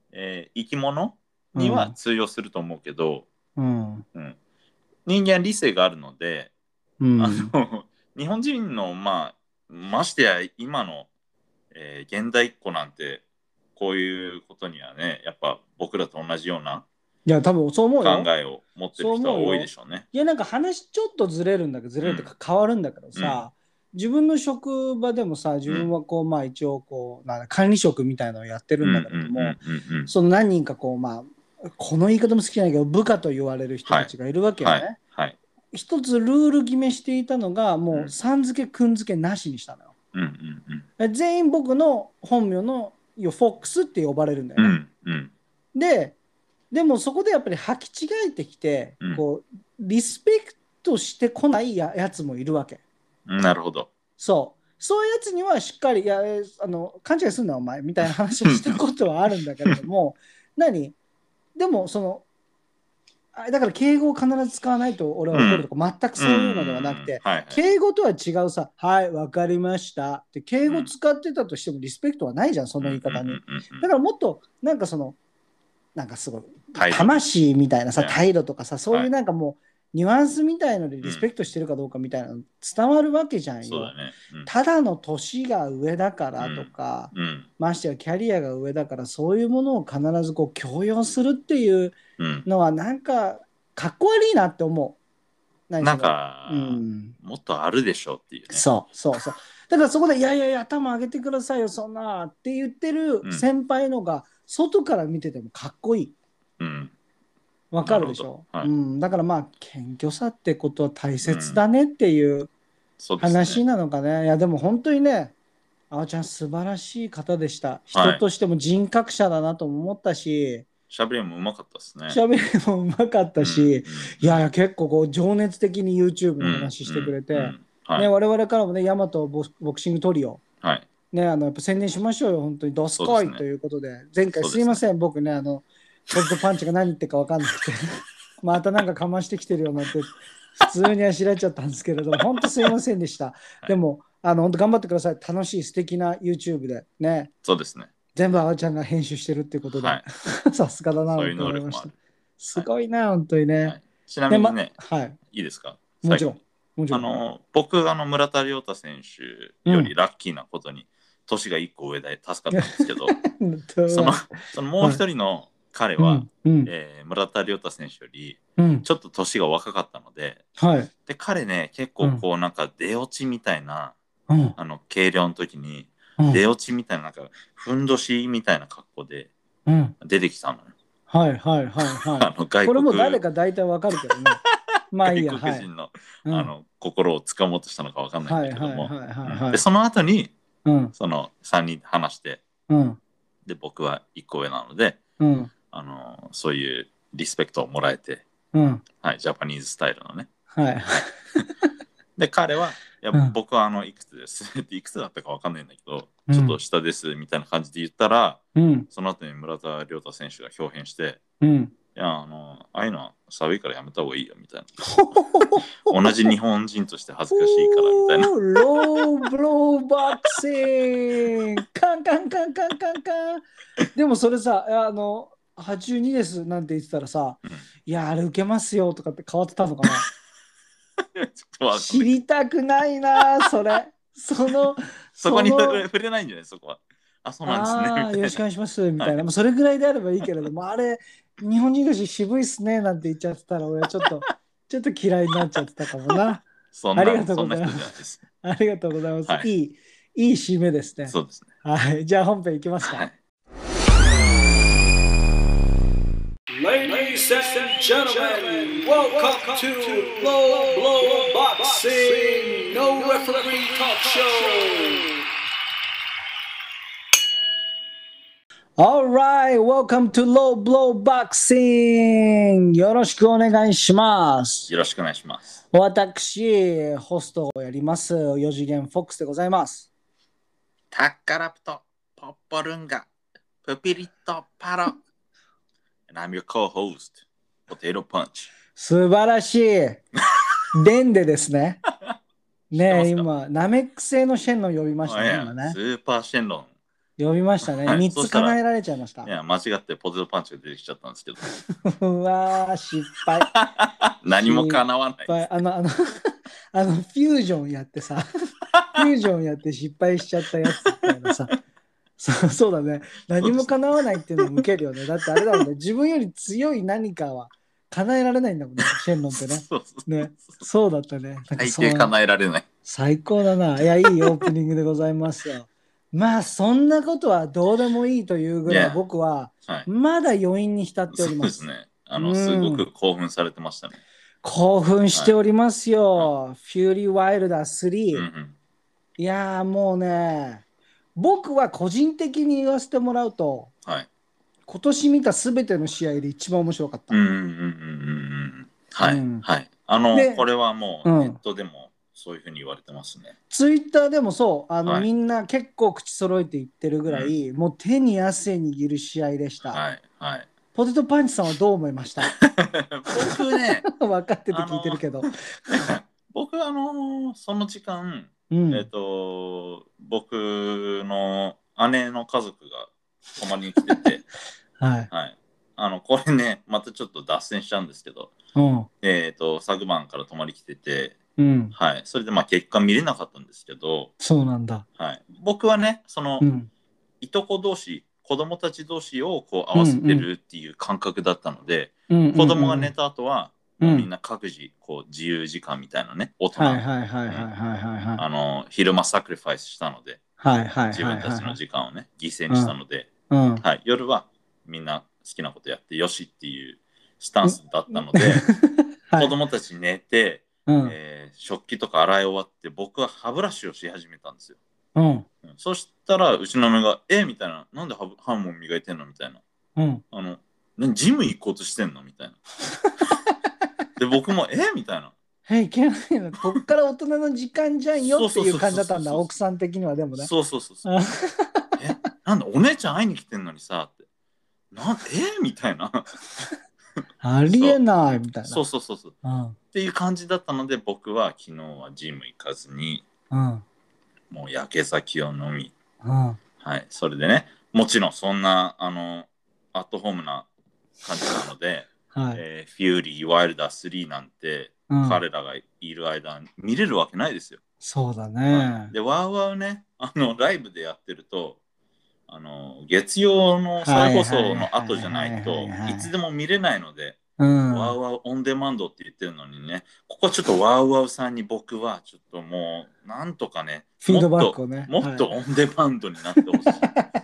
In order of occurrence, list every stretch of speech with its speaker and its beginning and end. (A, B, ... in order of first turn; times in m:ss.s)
0:00.1-0:03.3 A
0:01.5-0:01.9 B
0:03.6-0:04.0 B
0:05.0-0:06.5 A
0:07.0-0:07.5 B
0:07.2-0:11.1 A
0:11.7-0:13.2 A
0:13.8-0:16.8 A
0:17.2-0:18.3 B
0:18.0-0:20.0 A
0:19.0-0:29.6 B
0:22.0-0:22.3 A
0:23.1-0:23.4 A
0:28.8-0:30.1 A
0:30.1-0:35.0 B
0:33.9-0:35.4 A
0:35.7-0:39.9 B
0:40.1-0:40.8 A
0:41.0-0:44.7 B
0:44.6-0:45.3 A
0:45.7-0:46.2 B
0:46.7-0:52.8 B
0:53.3-0:53.9 A
0:54.2-1:01.0 B
0:58.5-0:58.8 A
1:01.6-1:02.2 B
1:03.3-1:15.2 B
1:05.3-1:07.6 A
1:10.6-1:10.9 A
1:12.8-1:13.8 A
1:16.0-1:23.9 B
1:16.7-1:17.2 A
1:23.6-1:24.5 A
1:24.4-1:35.0 B
1:26.4-1:27.5 A
1:32.2-1:32.4 A
1:35.7-1:37.1 B
1:35.8-1:38.6 A
1:38.5-1:46.1 B
1:46.6-1:46.9 A
1:47.7-1:52.5 B
1:47.8-1:48.7 A
1:51.2-1:51.6 A
1:53.0-1:53.6 A
1:53.2-1:55.3 B
1:55.9-2:00.7 B
1:57.9-1:58.2 A
2:00.9-2:02.2 A
2:02.1-2:10.4 B
2:03.4-2:04.4 A
2:06.4-2:08.1 A
2:11.1-2:27.3 B
2:13.0-2:13.4 A
2:14.4-2:14.8 A
2:27.4-2:27.9 A
2:28.1-2:33.8 B
2:29.7-2:30.0 A
2:31.1-2:31.9 A
2:33.6-2:34.7 A
2:34.3-2:35.2 B
2:35.3-2:36.3 A
2:36.0-2:37.0 B
2:36.9-2:43.1 A
2:39.6-2:39.9 B
2:42.5-2:45.0 B
2:43.9-2:50.4 A
2:46.0-2:46.7 B
2:48.6-2:48.8 B
2:50.6-2:50.9 B
2:51.1-2:53.9 A
2:54.3-2:54.6 B
2:54.6-2:59.3 A
2:59.6-2:59.9 B
3:00.0-3:00.7 A
3:01.1-3:05.6 B
3:02.0-3:03.2 A
3:04.4-3:10.3 A
3:06.2-3:06.5 B
3:08.2-3:09.6 B
3:10.6-3:10.9 B
3:10.9-3:12.4 A
3:12.7-3:13.0 B
3:13.4-3:15.0 A
3:15.2-3:15.5 B
3:15.7-3:18.2 A
3:18.5-3:18.8 B
3:19.0-3:20.3 A
3:20.5-3:21.2 B
3:22.2-3:31.2 A
3:26.3-3:26.6 B
3:28.6-3:28.9 B
3:31.4-3:31.7 B
3:31.9-3:39.1 A
3:34.8-3:36.3 B
3:37.3-3:50.1 B
3:51.0-3:52.1 A
3:51.7-3:55.8 B
3:54.7-3:58.4 A
3:57.4-4:06.4 B
4:04.0-4:04.3 A
4:06.7-4:08.2 A
4:06.9-4:07.9 B
4:08.4-4:13.0 B
4:11.1-4:11.5 A
4:12.8-4:13.1 A
4:16.5-4:25.1 C
4:19.9-4:21.5 B
4:22.4-4:22.9 B
4:28.8-4:34.7 B
4:34.7-4:35.6 A
4:35.7-4:39.9 B
4:40.9-4:43.1 A
4:43.6-4:45.0 A
4:46.1-4:48.5 A
4:48.7-4:50.0 B
4:50.7-4:51.8 B
4:52.7-4:55.8 B
4:52.8-4:53.3 A
4:55.0-4:56.7 A
4:57.2-4:59.3 B
4:57.8-4:58.6 A
4:59.2-5:01.4 A
5:01.8-5:03.5 B
5:03.5-5:05.4 A
5:04.4-5:08.2 B
5:08.7-5:09.0 A
5:08.9-5:11.5 B
5:12.2-5:22.1 B
5:13.4-5:13.8 A
5:19.3-5:20.6 A
5:21.6-5:22.6 A
5:22.8-5:31.6 B
5:24.0-5:24.3 A
5:28.6-5:29.0 A
5:31.1-5:34.0 A
5:32.2-5:32.8 B
5:34.4-5:38.3 B
5:38.1-5:38.6 A
5:39.2-5:40.6 B
5:41.2-5:43.7 B
5:44.7-5:47.2 B
5:47.1-5:53.3 A
5:49.0-5:49.4 B
5:50.1-5:50.4 B
5:51.0-5:51.4 B
5:53.5-5:59.8 B
5:57.1-5:57.3 A
5:59.7-6:00.5 A
6:00.7-6:02.3 B
6:02.4-6:03.8 A
6:03.2-6:05.9 B
6:04.5-6:14.2 A
6:08.5-6:08.8 B
6:14.8-6:15.1 B
6:15.1-6:18.3 A
6:18.6-6:18.9 B
6:19.0-6:21.2 A
6:21.4-6:21.7 B
6:21.7-6:24.1 A
6:24.2-6:24.8 B
6:25.0-6:26.4 A
6:26.4-6:26.7 B
6:27.2-6:37.5 A
6:29.7-6:30.2 B
6:32.1-6:32.9 B
6:33.8-6:34.1 B
6:36.5-6:38.2 B
6:38.2-6:40.2 A
6:40.4-6:41.6 B
6:40.9-6:43.1 A
6:42.5-6:42.7 B
6:43.3-6:43.6 B
6:43.6-6:48.5 A
6:47.4-6:49.3 B
6:49.2-6:54.6 A
6:50.7-6:50.9 B
6:55.0-6:55.3 B
6:55.4-6:59.4 A
6:59.8-7:00.0 B
7:00.1-7:02.4 A
7:04.0-7:05.1 A
7:05.5-7:10.3 B
7:08.0-7:09.3 A
7:10.2-7:11.0 A
7:10.8-7:11.8 B
7:11.8-7:14.0 A
7:14.7-7:16.2 A
7:17.2-7:18.6 B
7:17.5-7:17.8 A
7:18.4-7:19.2 A
7:19.2-7:19.6 B
7:19.7-7:23.0 A
7:23.3-7:23.6 B
7:24.3-7:25.7 A
7:26.0-7:26.4 B
7:26.6-7:30.5 A
7:31.0-7:37.6 A
7:32.1-7:32.4 B
7:34.9-7:35.2 B
7:37.8-7:38.9 B
7:38.5-7:41.6 A
7:42.3-7:47.2 A
7:43.8-7:46.1 B
7:47.4-7:47.9 B
7:47.7-7:56.9 A
7:54.0-7:55.3 B
7:56.6-7:57.1 B